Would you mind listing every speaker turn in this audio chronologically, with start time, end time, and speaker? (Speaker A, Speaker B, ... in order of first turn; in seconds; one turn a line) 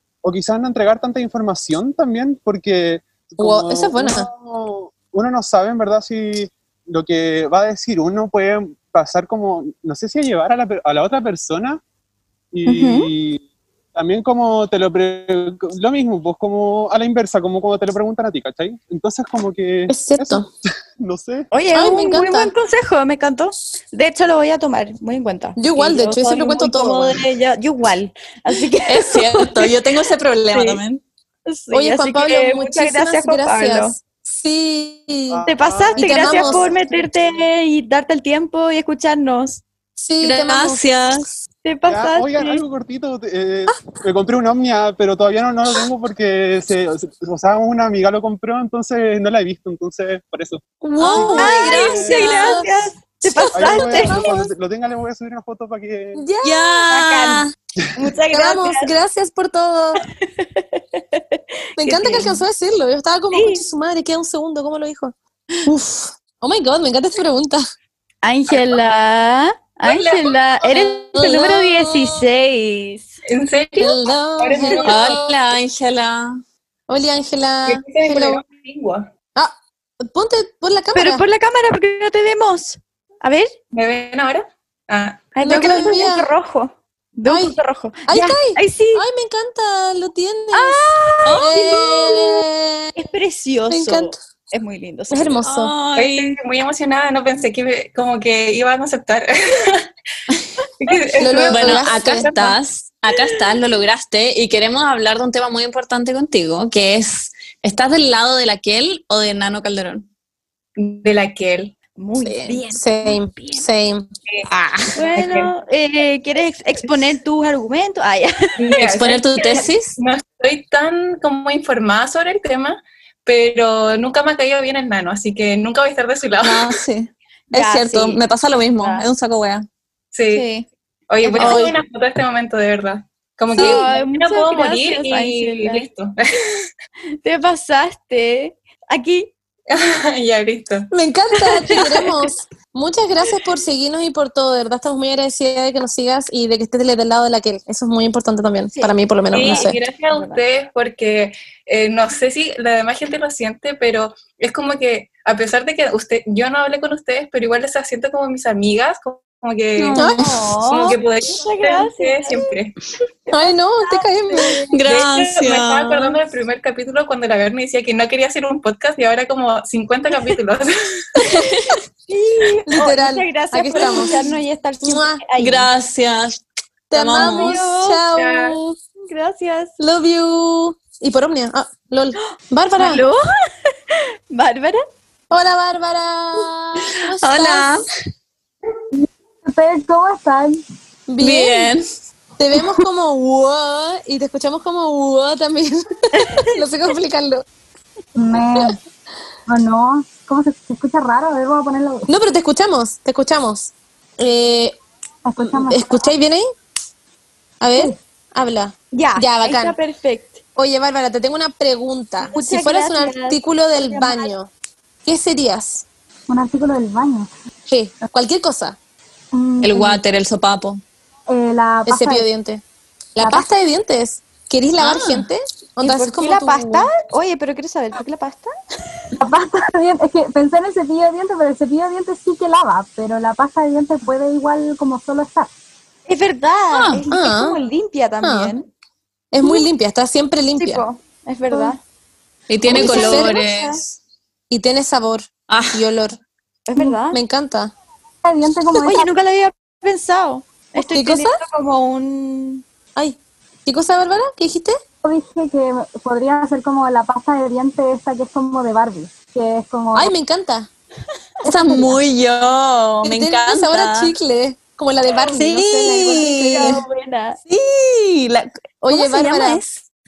Speaker A: 0.2-11.8
Speaker B: 3.4-4.3
Speaker A: 12.5-13.4
Speaker C: 12.7-13.1
Speaker A: 13.9-20.5
Speaker B: 19.9-20.4
Speaker A: 21.0-21.5
Speaker C: 21.5-29.7
Speaker B: 21.7-22.5
Speaker B: 25.6-27.2
Speaker D: 28.9-31.0
Speaker C: 30.5-30.8
Speaker C: 31.4-33.9
Speaker B: 31.7-35.5
Speaker A: 35.3-37.4
Speaker C: 35.5-39.6
Speaker B: 36.0-36.7
Speaker B: 40.0-40.8
Speaker D: 40.3-41.3
Speaker C: 41.6-42.6
Speaker A: 41.9-52.4
Speaker B: 50.8-52.7
Speaker D: 51.0-52.3
Speaker C: 51.2-54.2
Speaker B: 53.4-54.5
Speaker A: 53.5-56.2
Speaker B: 56.1-56.9
Speaker D: 56.4-57.5
Speaker C: 56.9-57.5
Speaker C: 58.0-58.9
Speaker B: 58.3-60.0
Speaker B: 61.8-65.1
Speaker C: 61.8-62.4
Speaker C: 63.3-63.6
Speaker B: 65.7-67.6
Speaker C: 68.2-73.1
Speaker E: 69.8-70.1
Speaker B: 70.8-72.0
Speaker E: 73.2-75.2
Speaker B: 73.8-75.2
Speaker D: 74.8-76.4
Speaker B: 76.9-78.4
Speaker E: 77.7-79.1
Speaker B: 80.0-81.2
Speaker C: 80.9-83.5
Speaker E: 83.7-85.3
Speaker C: 85.3-89.0
Speaker B: 85.4-86.3
Speaker B: 87.3-87.5
Speaker B: 88.1-92.9
Speaker C: 90.5-92.4
Speaker C: 93.0-95.4
Speaker B: 93.7-94.2
Speaker B: 95.1-95.7
Speaker D: 95.4-96.4
Speaker E: 95.9-99.8
Speaker E: 100.8-102.5
Speaker B: 101.2-102.3
Speaker D: 101.5-110.0
Speaker E: 110.8-111.8
Speaker C: 112.0-113.6
Speaker B: 112.7-114.1
Speaker C: 114.9-118.3
Speaker E: 115.0-115.5
Speaker E: 118.6-126.7
Speaker D: 118.8-120.0
Speaker D: 126.4-129.7
Speaker C: 127.5-128.2
Speaker C: 128.8-129.1
Speaker E: 130.1-130.5
Speaker C: 130.3-130.7
Speaker E: 131.1-136.2
Speaker C: 131.2-131.6
Speaker B: 131.4-131.8
Speaker B: 133.5-133.9
Speaker C: 133.5-135.9
Speaker C: 137.2-139.3
Speaker E: 139.7-140.9
Speaker B: 140.9-149.8
Speaker C: 148.7-150.4
Speaker E: 149.3-160.1
Speaker C: 159.8-162.5
Speaker B: 159.9-160.2
Speaker E: 160.6-162.7
Speaker C: 163.3-164.4
Speaker B: 163.3-164.6
Speaker D: 164.7-166.2
Speaker E: 164.8-170.7
Speaker C: 172.1-175.7
Speaker B: 172.7-174.1
Speaker B: 174.8-175.2
Speaker D: 175.4-176.3
Speaker B: 176.9-178.7
Speaker D: 176.9-177.6
Speaker C: 177.1-178.5
Speaker C: 179.1-179.7
Speaker B: 179.8-183.0
Speaker C: 182.8-183.2
Speaker C: 184.3-184.8
Speaker B: 185.3-187.7
Speaker C: 187.2-187.8
Speaker F: 189.5-190.6
Speaker B: 191.1-191.7
Speaker D: 191.2-191.8
Speaker B: 192.4-195.8
Speaker C: 196.2-196.4
Speaker B: 196.4-197.4
Speaker F: 198.2-198.5
Speaker F: 199.5-202.0
Speaker B: 202.1-204.7
Speaker F: 205.2-205.6
Speaker B: 205.5-206.4
Speaker B: 207.6-209.7
Speaker C: 208.9-210.4
Speaker B: 210.6-214.5
Speaker C: 212.2-214.3
Speaker B: 215.0-215.8
Speaker F: 216.3-217.3
Speaker B: 217.7-218.8
Speaker D: 219.6-220.8
Speaker F: 221.3-222.1
Speaker B: 221.8-222.6
Speaker B: 223.2-226.9
Speaker D: 224.8-225.3
Speaker C: 225.8-228.5
Speaker F: 229.2-235.5
Speaker C: 236.1-238.7
Speaker D: 236.7-237.0
Speaker B: 237.1-237.6
Speaker B: 238.2-238.5
Speaker B: 239.3-240.8
Speaker C: 240.6-241.8
Speaker D: 242.5-243.8
Speaker B: 242.7-243.4
Speaker C: 242.7-243.8
Speaker B: 244.5-246.2
Speaker D: 245.5-245.8
Speaker C: 246.7-247.2
Speaker B: 246.8-247.7
Speaker F: 248.3-249.0
Speaker C: 248.7-252.6
Speaker B: 250.8-251.3
Speaker B: 252.9-254.8
Speaker F: 255.0-260.0
Speaker B: 259.9-260.7
Speaker D: 261.4-264.1
Speaker B: 261.6-261.9
Speaker B: 263.0-266.8
Speaker C: 265.3-267.4
Speaker D: 265.4-266.7
Speaker B: 268.8-269.6
Speaker D: 268.9-269.6